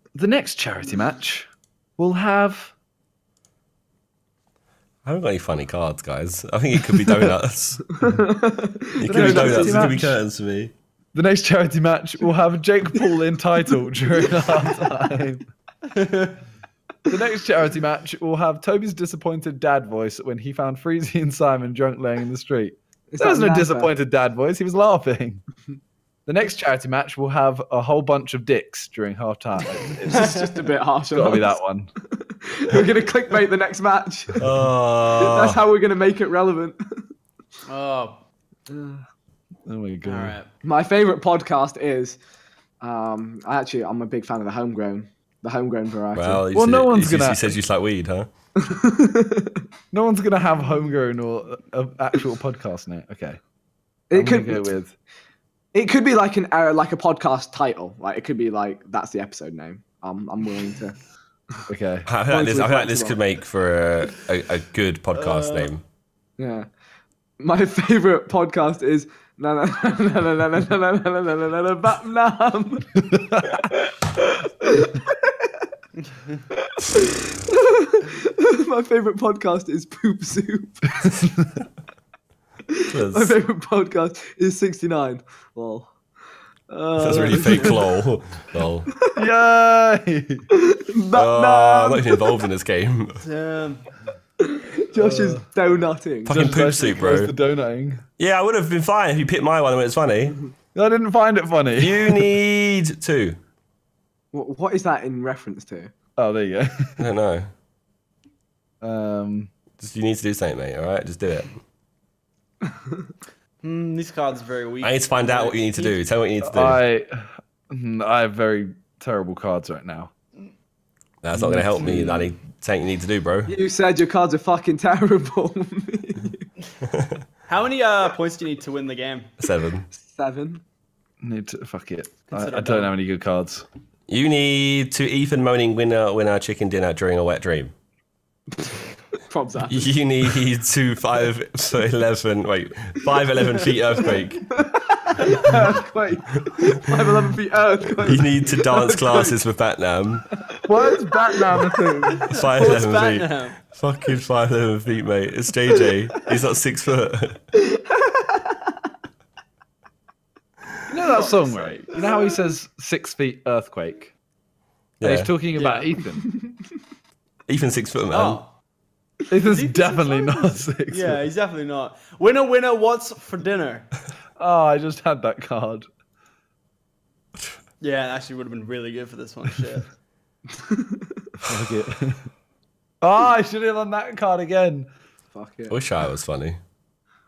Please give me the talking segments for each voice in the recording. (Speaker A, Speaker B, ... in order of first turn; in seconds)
Speaker A: 0.1-2.7, 9.0-10.2, 11.1-15.4, 17.1-25.4, 26.2-30.3, 31.1-31.9, 39.6-40.4, 46.5-47.5, 49.9-53.4, 54.1-54.9, 61.7-62.1, 89.1-90.4, 95.0-95.4, 96.3-98.0, 100.7-102.3, 106.2-106.9, 108.8-109.5, 116.4-120.1, 121.3-122.2, 131.2-133.7, 150.7-152.2, 160.9-164.1, 165.0-166.2, 169.3-171.2, 174.4-175.9, 181.4-182.3, 183.0-184.9
Speaker B: 5.0-7.8, 9.0-10.7, 34.4-35.6, 46.1-48.3, 62.0-65.8, 82.9-83.3, 87.0-88.9, 91.2-93.2, 96.2-97.3, 98.2-100.4, 101.8-103.4, 107.0-107.5, 109.8-111.6, 114.8-116.8, 121.2-123.5, 129.4-129.8, 134.1-137.7, 139.7-144.4, 148.0-150.2, 152.3-157.4, 165.0-165.3, 167.5-168.4, 185.7-186.6
Speaker C: 7.9-9.9, 23.1-23.9, 30.1-34.4, 35.1-37.0, 38.7-39.0, 40.6-42.2, 42.8-46.4, 48.6-49.6, 54.1-54.7, 55.7-61.0, 62.3-63.2, 66.4-66.7, 67.4-73.0, 73.6-75.2, 76.6-81.0, 82.9-85.9, 86.7-87.9, 90.5-92.4, 94.4-96.4, 104.3-105.9, 123.5-126.4, 129.9-130.6, 139.2-139.8, 144.5-149.4, 151.2-152.1, 157.8-158.6, 166.2-166.6, 180.6-181.2, 185.3-185.8
Speaker D: 15.9-16.4, 30.1-30.8, 37.6-38.2, 40.0-40.5, 65.1-65.8, 93.2-93.9, 113.6-116.0, 127.5-129.3, 132.3-132.9, 152.5-153.6, 161.2-162.1, 165.5-165.9, 168.1-168.5, 169.4-173.9, 177.8-179.9